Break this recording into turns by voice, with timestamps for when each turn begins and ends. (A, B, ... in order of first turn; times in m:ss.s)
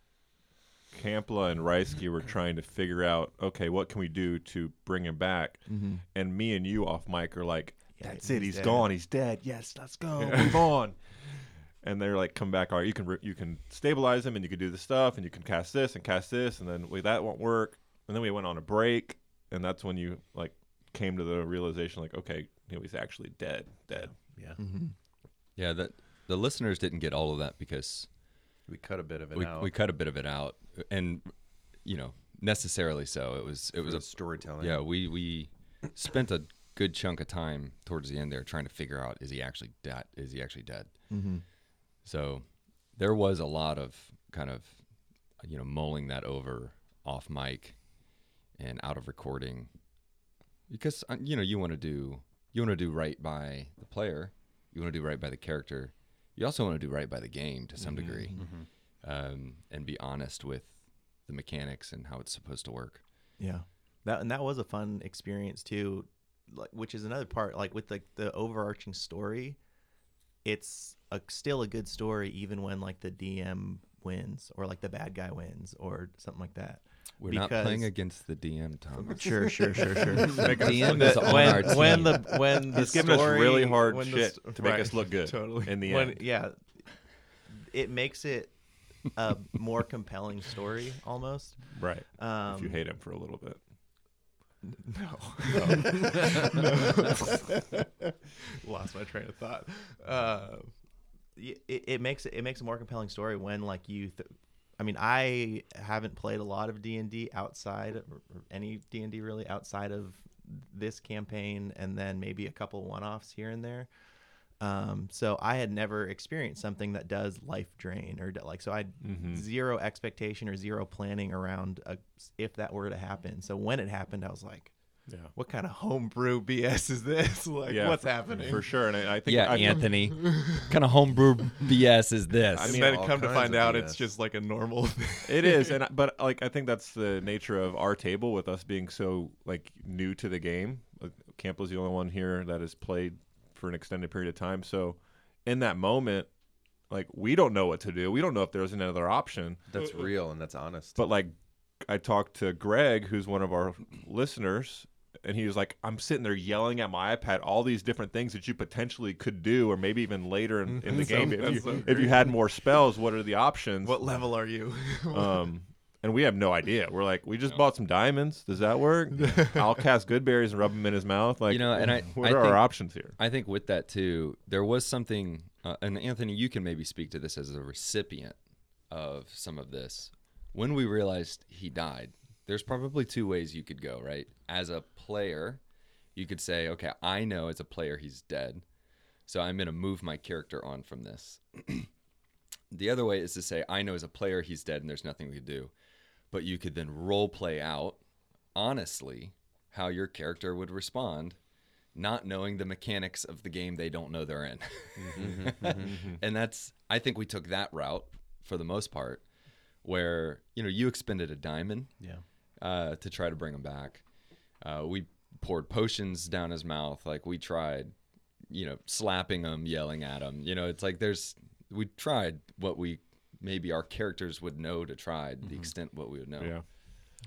0:00.9-0:24.2 A
0:05.7-0:06.0 B
0:08.0-0:08.9 B
0:10.2-0:10.6 B
0:23.9-0:24.6 C
0:24.6-0:24.9 B
0:25.6-0:28.3 D
0:28.7-0:29.7 E
0:29.3-0:50.1 D
0:33.8-0:34.8 E
0:41.1-0:41.4 B
0:50.7-1:03.0 D
0:57.8-0:58.5 B
0:58.3-0:58.7 C
1:03.4-1:09.6 B
1:10.4-1:17.9 B
1:17.2-1:22.4 D
1:19.0-1:32.8 B
1:19.6-1:20.6 C
1:20.4-1:22.0 A
1:22.7-1:26.2 A
1:31.7-1:33.6 A
1:34.6-1:37.5 B
1:35.9-1:36.4 C
1:38.6-1:40.8 B
1:41.3-1:53.9 B
1:54.6-2:08.8 B
1:59.0-1:59.4 A
2:05.1-2:05.3 A
2:07.7-2:10.1 A
2:09.2-2:12.8 D
2:09.9-2:10.3 B
2:12.5-2:13.0 A
2:12.6-2:14.1 E
2:12.6-2:15.7 B
2:15.2-2:26.3 A
2:26.9-2:30.0 A
2:29.7-2:31.0 E
2:30.9-2:44.3 A
2:40.8-2:42.7 B
2:40.9-2:41.7 C
2:43.8-2:45.5 B
2:45.1-2:53.2 A
2:51.5-3:05.6 D
3:06.1-3:08.6 D
3:09.2-3:11.9 D
3:12.7-3:15.7 D
3:16.3-3:18.0 D
3:18.5-3:21.4 D
3:21.9-3:37.9 D
3:25.2-3:25.9 E
3:25.8-3:26.2 A
3:32.0-3:32.2 C
3:38.5-3:46.7 D
3:45.4-3:45.7 C
3:46.4-3:46.6 A